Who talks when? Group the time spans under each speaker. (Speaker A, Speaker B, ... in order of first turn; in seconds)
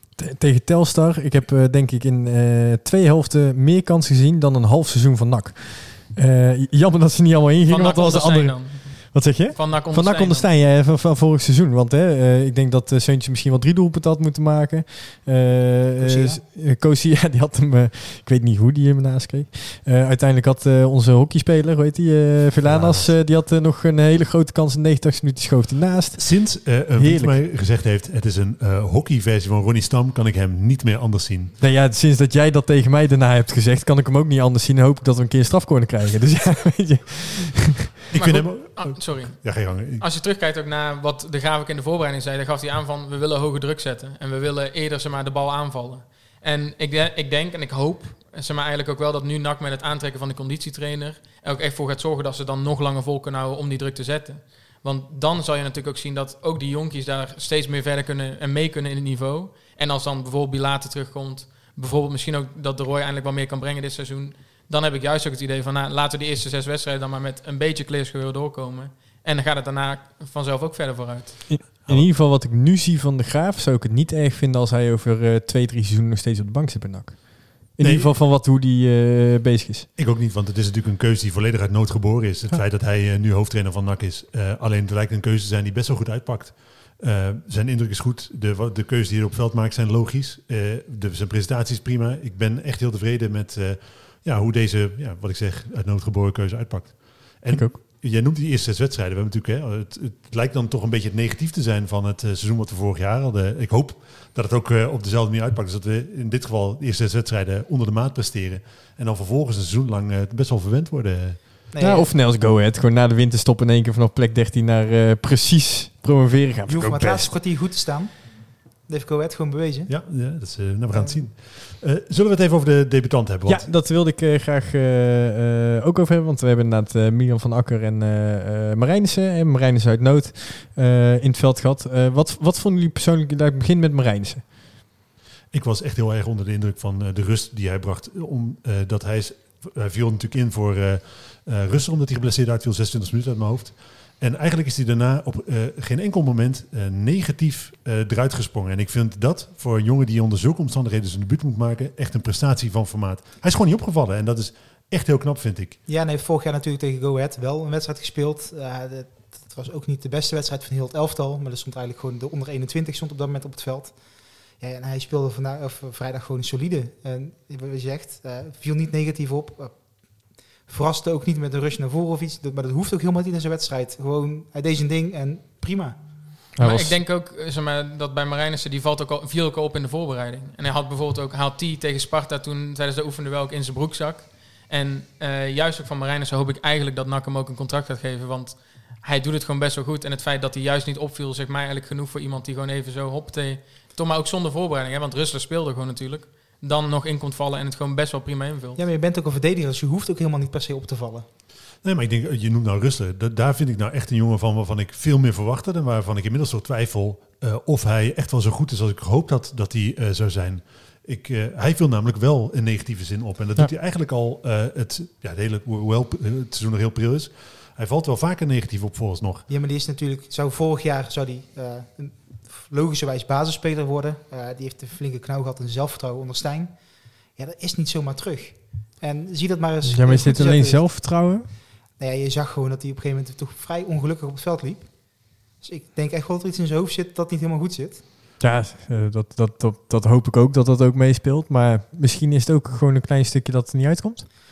Speaker A: 0.2-27.4, 31.6-37.7, 71.5-79.9, 97.5-97.8, 111.8-117.3, 123.5-134.5, 176.6-177.0, 229.8-231.5, 238.4-244.3
Speaker B: 7.7-10.5, 38.1-71.4, 176.6-198.8
Speaker C: 16.0-16.4, 111.7-112.1, 116.7-119.9, 120.9-121.2, 155.9-163.9, 164.6-169.8, 170.7-176.0, 198.8-201.2, 219.5-226.7, 227.4-230.8, 232.0-234.9, 235.6-238.0
Speaker D: 22.6-23.1, 26.1-31.5, 38.1-40.0, 71.8-72.1, 77.8-78.1, 80.0-111.4, 119.9-123.7, 135.5-155.8, 201.8-219.4